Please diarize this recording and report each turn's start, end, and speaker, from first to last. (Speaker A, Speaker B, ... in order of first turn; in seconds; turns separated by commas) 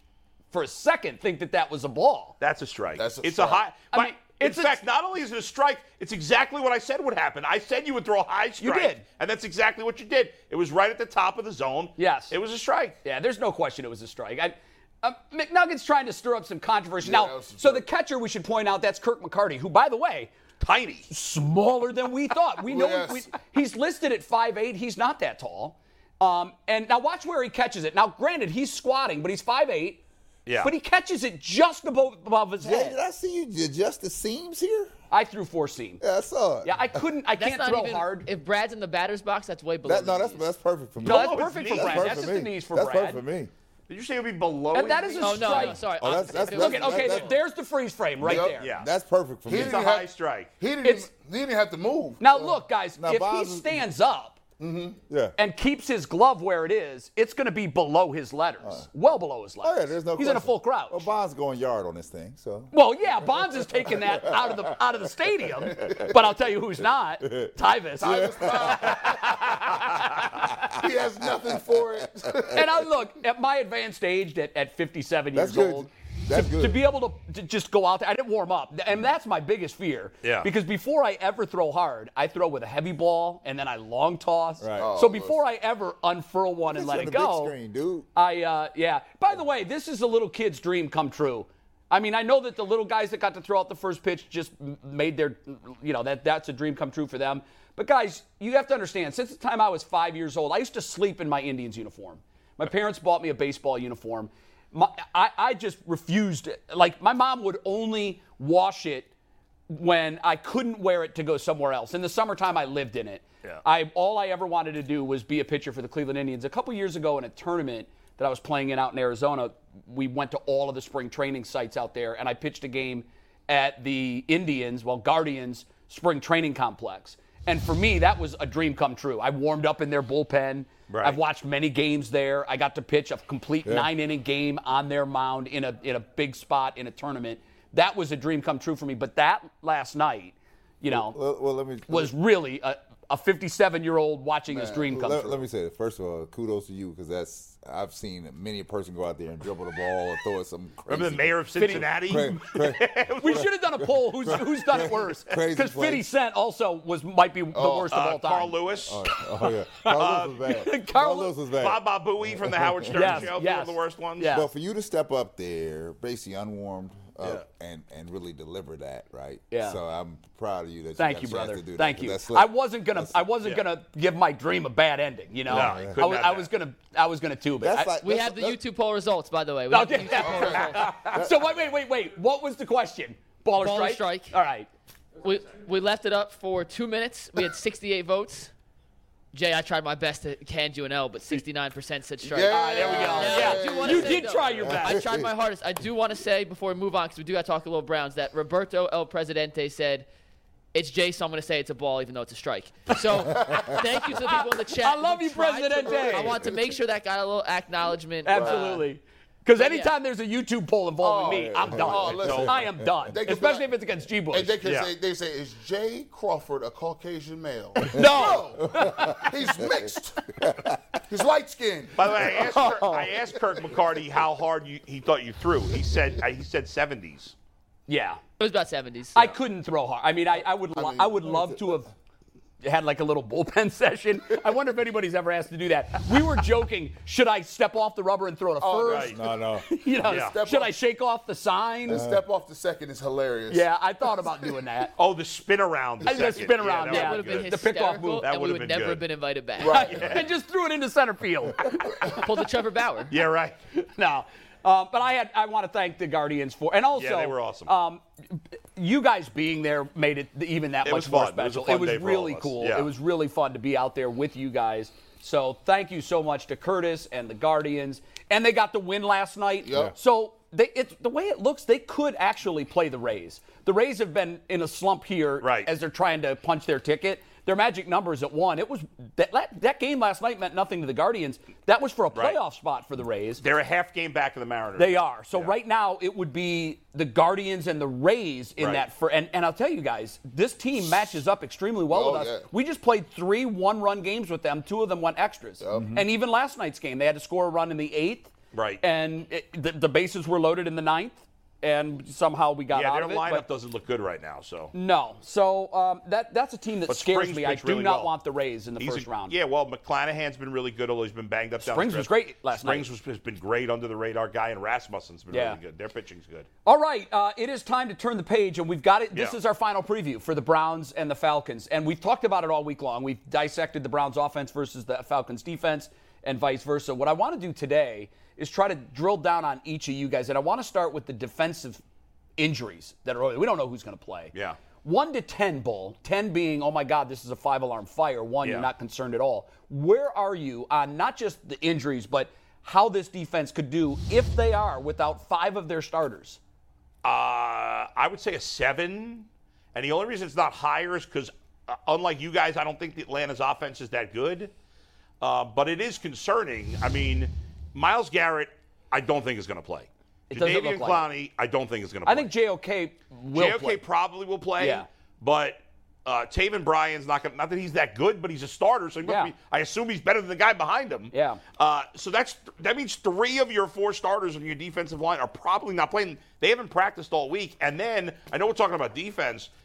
Speaker A: 0.5-2.3, Speaker B: 2.4-12.9, Speaker C: 3.0-3.6, Speaker A: 3.9-4.8, Speaker A: 8.6-9.0, Speaker A: 12.0-12.3, Speaker A: 13.0-20.3, Speaker C: 17.0-17.9, Speaker B: 20.6-21.1, Speaker A: 21.1-30.0, Speaker C: 22.6-23.3, Speaker B: 30.4-30.7, Speaker A: 30.6-33.0, Speaker D: 32.6-34.9, Speaker A: 35.1-36.0, Speaker D: 36.0-37.0, Speaker A: 36.6-38.3, Speaker E: 37.4-40.5, Speaker D: 39.8-43.5, Speaker B: 41.0-42.3, Speaker A: 41.0-43.2, Speaker B: 43.9-45.8, Speaker A: 44.7-48.7, Speaker E: 45.2-47.3, Speaker D: 46.0-47.4, Speaker C: 48.2-48.6, Speaker D: 48.2-49.9, Speaker B: 48.6-48.9, Speaker C: 49.5-52.5, Speaker B: 49.5-50.5, Speaker A: 50.8-51.1, Speaker A: 52.2-54.4, Speaker D: 53.0-53.8, Speaker C: 54.6-55.0, Speaker D: 55.1-55.4, Speaker A: 55.4-61.0, Speaker D: 59.6-64.8, Speaker A: 62.7-70.2, Speaker D: 65.7-66.1, Speaker D: 67.2-69.6, Speaker C: 68.0-69.4, Speaker D: 70.4-72.5, Speaker C: 70.7-72.8, Speaker A: 72.5-87.5, Speaker D: 75.3-76.8, Speaker B: 80.2-80.5, Speaker D: 84.6-85.0, Speaker C: 84.8-85.4, Speaker D: 86.7-88.1, Speaker A: 88.1-109.1, Speaker A: 109.7-141.2, Speaker B: 130.9-131.2, Speaker D: 133.6-133.9, Speaker D: 140.9-142.1, Speaker A: 141.9-145.4, Speaker C: 144.5-144.9, Speaker D: 144.9-156.1, Speaker B: 150.9-153.5, Speaker A: 151.6-152.4, Speaker A: 153.2-158.6, Speaker C: 157.5-157.9, Speaker B: 157.9-159.0, Speaker D: 158.8-163.3, Speaker A: 159.4-159.9, Speaker B: 159.9-160.3, Speaker A: 160.4-161.3, Speaker B: 161.6-164.3, Speaker A: 162.9-164.5, Speaker D: 164.3-173.2, Speaker A: 169.5-169.8, Speaker A: 171.0-177.9, Speaker D: 175.5-176.0, Speaker B: 175.5-176.5, Speaker D: 177.6-178.6, Speaker E: 178.0-181.0, Speaker A: 179.7-184.7, Speaker C: 180.2-180.7, Speaker D: 181.1-181.5, Speaker E: 183.6-184.3, Speaker E: 185.2-188.5, Speaker E: 189.3-200.1, Speaker C: 192.2-194.3, Speaker A: 192.4-195.1, Speaker D: 194.6-195.3, Speaker E: 200.7-208.8, Speaker A: 203.3-206.4, Speaker C: 203.4-203.7, Speaker C: 205.8-206.7, Speaker A: 208.2-214.5, Speaker C: 208.3-208.8, Speaker E: 209.6-209.9, Speaker C: 211.0-213.7, Speaker D: 211.2-212.9, Speaker C: 214.3-220.6, Speaker B: 214.6-214.9, Speaker A: 217.8-219.3, Speaker D: 217.9-219.1, Speaker D: 220.4-220.7, Speaker C: 221.1-223.1, Speaker B: 221.9-227.3, Speaker A: 222.5-223.1, Speaker A: 227.9-228.2, Speaker E: 228.4-229.2, Speaker A: 229.1-231.9, Speaker C: 230.7-231.5, Speaker A: 232.6-242.0, Speaker C: 238.6-239.2, Speaker B: 238.8-239.2, Speaker D: 239.1-239.7, Speaker C: 240.0-240.7, Speaker B: 240.1-240.3, Speaker C: 241.9-243.7, Speaker D: 241.9-242.2, Speaker A: 243.5-244.9, Speaker B: 245.0-247.5, Speaker A: 246.0-248.3, Speaker C: 246.1-246.5, Speaker E: 246.8-249.9, Speaker B: 248.2-249.0, Speaker C: 249.6-250.2, Speaker A: 249.7-252.3, Speaker B: 249.7-250.3, Speaker E: 252.0-253.1, Speaker B: 253.1-253.6, Speaker A: 253.7-283.4, Speaker B: 256.9-257.7, Speaker B: 260.8-262.9, Speaker C: 269.6-269.9, Speaker B: 275.4-275.7, Speaker B: 283.4-285.5, Speaker A: 284.8-298.3, Speaker B: 288.6-288.8, Speaker C: 291.9-292.5, Speaker C: 295.6-296.0, Speaker D: 295.7-296.0, Speaker B: 298.5-298.8, Speaker A: 298.8-303.4, Speaker B: 302.7-304.7, Speaker A: 304.7-309.3, Speaker B: 306.9-308.1, Speaker B: 308.8-316.5, Speaker A: 311.6-312.9, Speaker A: 315.3-315.6, Speaker A: 316.6-331.8, Speaker A: 332.4-346.4, Speaker B: 334.3-334.6, Speaker B: 338.4-338.7, Speaker B: 347.0-354.5, Speaker B: 355.2-362.3, Speaker A: 360.3-361.1, Speaker A: 362.1-363.8, Speaker B: 363.3-379.5, Speaker A: 364.6-364.9, Speaker A: 369.0-369.3, Speaker A: 371.1-371.4